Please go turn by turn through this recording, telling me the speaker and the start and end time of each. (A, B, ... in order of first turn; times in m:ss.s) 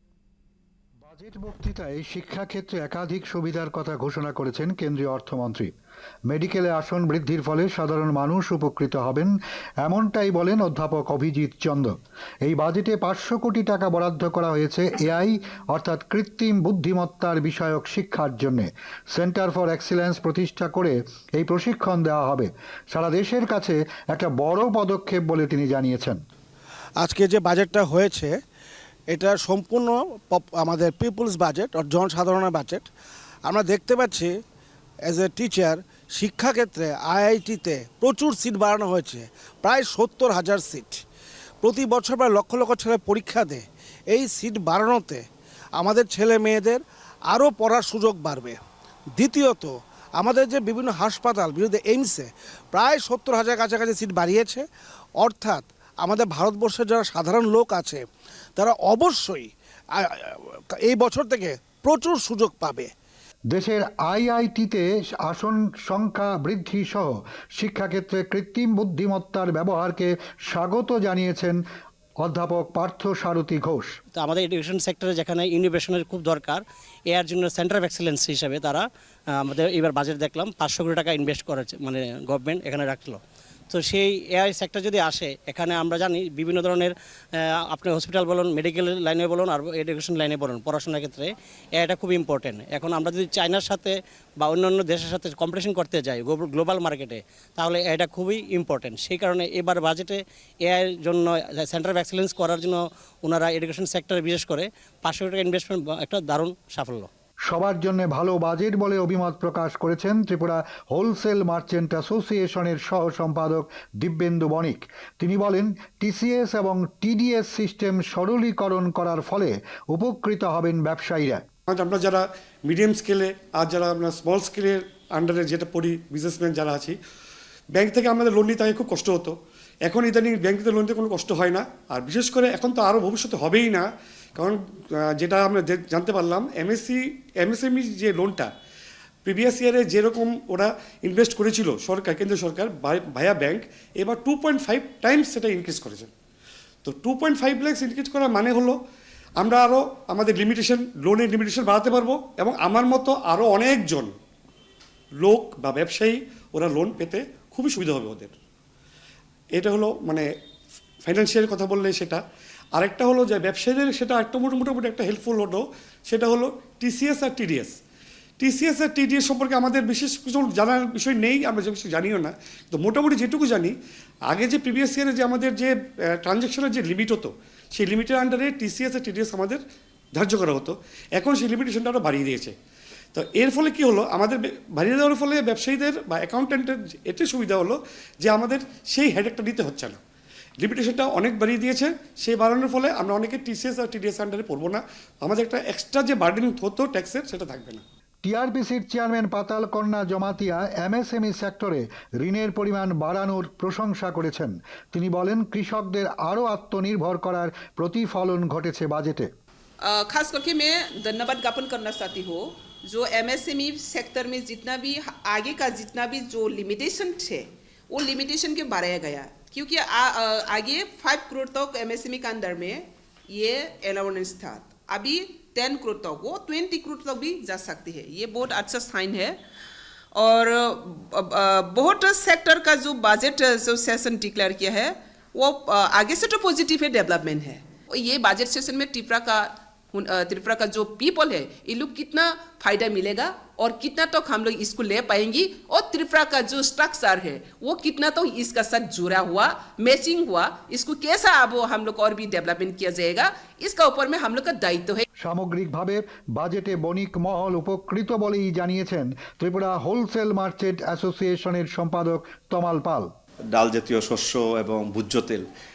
0:01.0-0:05.7 A
0:06.3-0:26.2 A
0:27.0-0:28.4 B
0:29.1-0:32.9 B
0:33.4-0:34.3 B
0:35.0-0:41.0 B
0:41.6-0:45.2 B
0:45.8-0:48.6 B
0:49.2-0:54.6 B
0:55.2-0:58.0 B
0:58.6-1:02.9 B
1:03.5-1:11.6 A
1:12.2-1:13.9 A
1:14.1-1:18.8 C
1:19.4-1:23.2 C
1:23.7-1:26.9 C
1:27.7-1:47.1 C
1:47.5-2:01.4 A
2:01.7-2:07.0 D
2:07.7-2:09.3 D
2:09.8-2:18.5 D
2:19.3-2:26.1 D
2:26.8-2:28.8 D
2:29.4-2:34.1 D
2:35.2-2:38.4 D
2:39.5-2:40.3 D
2:41.0-2:42.2 D
2:42.8-2:47.7 D
2:48.4-2:53.7 D
2:54.3-2:59.6 D
3:00.2-3:02.5 D
3:03.1-3:10.0 D
3:10.6-3:17.8 D
3:18.2-3:29.3 A
3:29.8-3:49.4 E
3:50.1-4:15.0 E
4:15.2-4:23.1 A
4:23.5-4:25.4 F